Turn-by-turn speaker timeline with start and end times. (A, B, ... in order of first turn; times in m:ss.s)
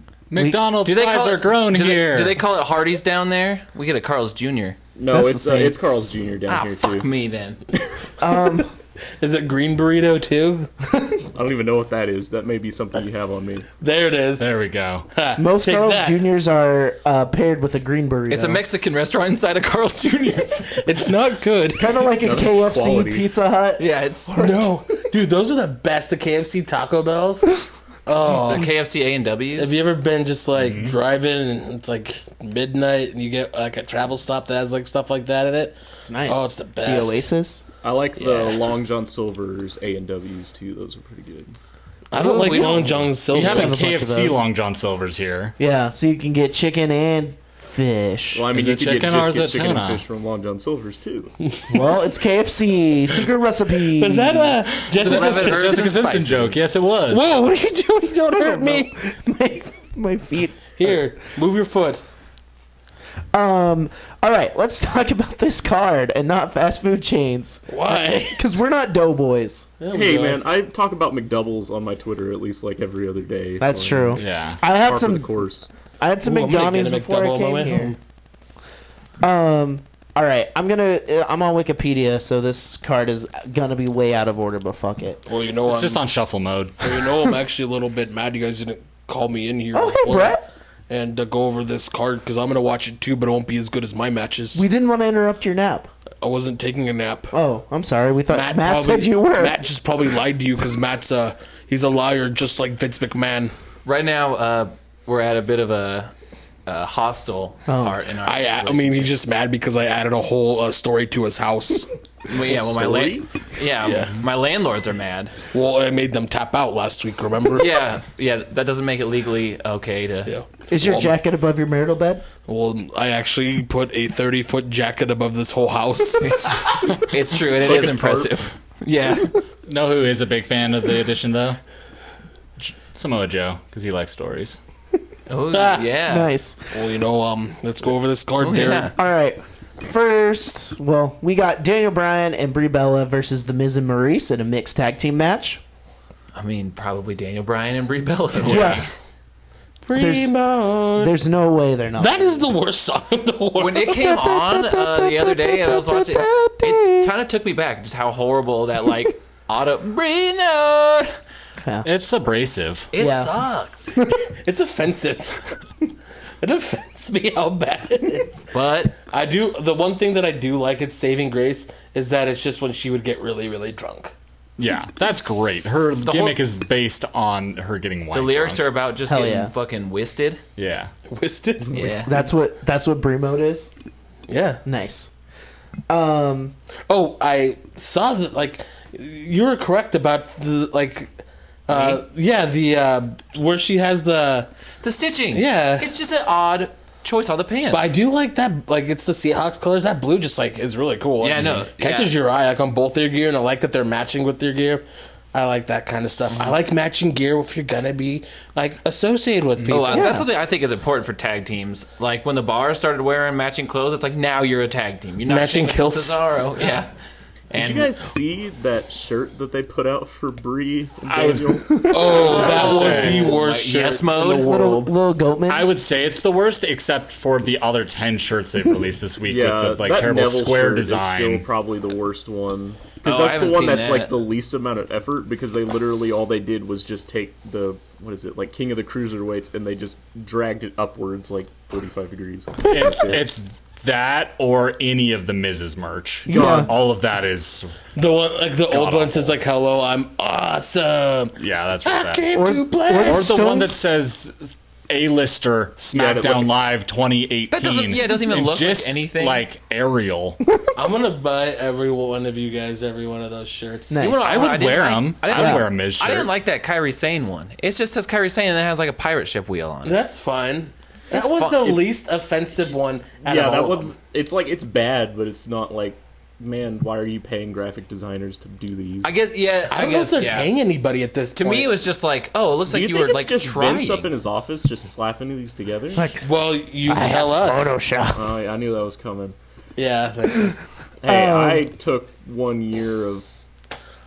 0:00.3-0:02.4 A
0:00.4-0:00.6 B
0:00.8-0:04.8 C
0:05.0-0:07.1 D
0:05.1-0:06.2 B
0:06.5-0:07.6 C
0:08.2-0:08.7 B
0:09.2-0:10.7 E
0:11.4-0:13.7 D
0:13.8-0:14.6 E
0:14.4-0:15.1 A
0:15.1-0:16.3 E
0:15.4-0:18.6 B
0:18.3-0:20.9 C
0:20.8-0:22.0 E
0:21.8-0:24.7 B
0:22.2-0:23.3 D
0:23.8-0:24.3 C
0:24.3-0:28.7 E
0:28.2-0:29.8 C
0:29.6-0:37.3 E
0:30.6-0:31.0 A
0:36.0-0:37.6 B
0:37.8-0:41.6 D
0:38.2-0:38.6 E
0:42.1-0:44.0 E
0:42.2-0:43.0 C
0:42.4-0:44.4 B
0:43.2-0:45.6 A
0:45.6-0:48.4 B
0:48.3-0:51.4 D
0:48.5-0:50.0 A
0:51.4-0:52.0 E
0:51.7-0:54.6 B
0:53.9-0:56.0 E
0:54.9-0:57.4 A
0:55.0-0:56.6 C
0:57.1-0:58.9 E
0:58.3-1:00.8 B
1:00.8-1:02.0 E
1:03.3-1:09.7 B
1:07.7-1:08.4 E
1:09.8-1:10.4 E
1:09.9-1:15.7 D
1:13.6-1:15.3 B
1:14.2-1:14.6 A
1:16.0-1:17.9 B
1:16.2-1:18.0 E
1:19.2-1:25.2 B
1:25.3-1:26.0 E
1:25.7-1:26.8 A
1:26.8-1:30.4 E
1:29.7-1:30.4 B
1:30.9-1:34.6 E
1:34.5-1:35.9 B
1:36.2-1:37.3 E
1:37.3-1:39.6 B
1:38.3-1:43.6 E
1:43.8-1:46.1 C
1:46.7-1:49.2 C
1:47.7-1:48.0 B
1:48.2-1:51.9 E
1:52.3-1:55.4 C
1:52.3-1:53.3 D
1:53.8-1:54.2 E
1:55.5-1:57.8 E
1:57.6-2:00.3 C
2:00.3-2:01.1 E
2:00.7-2:02.2 B
2:02.5-2:06.5 E
2:06.2-2:09.4 C
2:07.5-2:08.4 D
2:09.7-2:11.6 A
2:12.6-2:14.6 A
2:15.3-2:16.3 C
2:15.5-2:15.9 E
2:16.1-2:16.6 B
2:16.7-2:18.9 E
2:18.4-2:18.9 C
2:19.0-2:25.6 B
2:26.3-2:28.9 C
2:28.5-2:28.8 A
2:28.5-2:28.8 B
2:29.8-2:31.2 E
2:30.0-2:30.4 B
2:30.9-2:32.5 B
2:32.0-2:34.2 E
2:33.6-2:41.2 C
2:34.0-2:37.1 B
2:41.6-2:41.9 B
2:41.8-2:42.9 A
2:42.9-2:44.0 C
2:43.0-2:43.3 B
2:44.0-2:44.2 B
2:44.4-2:45.5 E
2:46.4-2:48.5 E
2:48.5-2:49.0 C
2:49.1-2:54.1 E
2:54.6-2:58.7 A
2:56.1-2:56.4 C
2:58.1-3:00.4 C
2:59.1-2:59.5 B
3:00.6-3:00.9 A
3:01.1-3:02.1 E
3:01.7-3:02.1 C
3:02.0-3:03.7 B
3:04.3-3:04.6 E
3:04.6-3:05.1 B
3:05.9-3:06.5 B
3:06.9-3:11.1 E
3:11.7-3:14.5 E
3:11.7-3:12.0 C
3:14.8-3:17.9 C
3:15.3-3:15.9 E
3:17.7-3:30.2 E
3:21.2-3:22.1 C
3:26.3-3:26.6 C
3:29.7-3:36.9 C
3:29.9-3:30.3 B
3:35.3-3:36.2 E
3:37.5-3:37.9 C
3:37.5-3:42.9 D
3:41.1-3:43.4 A
3:41.7-3:42.0 B
3:41.9-3:44.9 E
3:42.1-3:44.7 C
3:44.4-3:45.7 B
3:45.5-3:51.5 A
3:49.2-4:03.3 D
3:53.0-3:54.1 C
4:02.6-4:07.7 A
4:06.3-4:06.7 B
4:06.3-4:06.8 D
4:08.0-4:13.3 E
4:08.7-4:09.4 A
4:11.4-4:12.3 A
4:12.4-4:13.8 B
4:13.0-4:20.4 A
4:15.9-4:16.6 D
4:17.5-4:19.4 C
4:20.8-4:24.2 E
4:23.9-4:24.4 B
4:24.0-4:30.0 C
4:24.2-4:26.3 A
4:25.3-4:25.6 B
4:29.8-4:33.9 E
4:31.1-4:31.8 C
4:33.2-4:39.1 D
4:39.0-4:40.5 C
4:39.7-4:41.8 E
4:41.4-4:44.1 C
4:42.7-4:46.1 D
4:46.0-4:46.3 B
4:46.2-4:47.8 E
4:46.9-4:48.3 B
4:48.1-4:49.4 D
4:49.8-4:50.6 E
4:51.0-4:53.3 D
4:51.1-4:51.7 B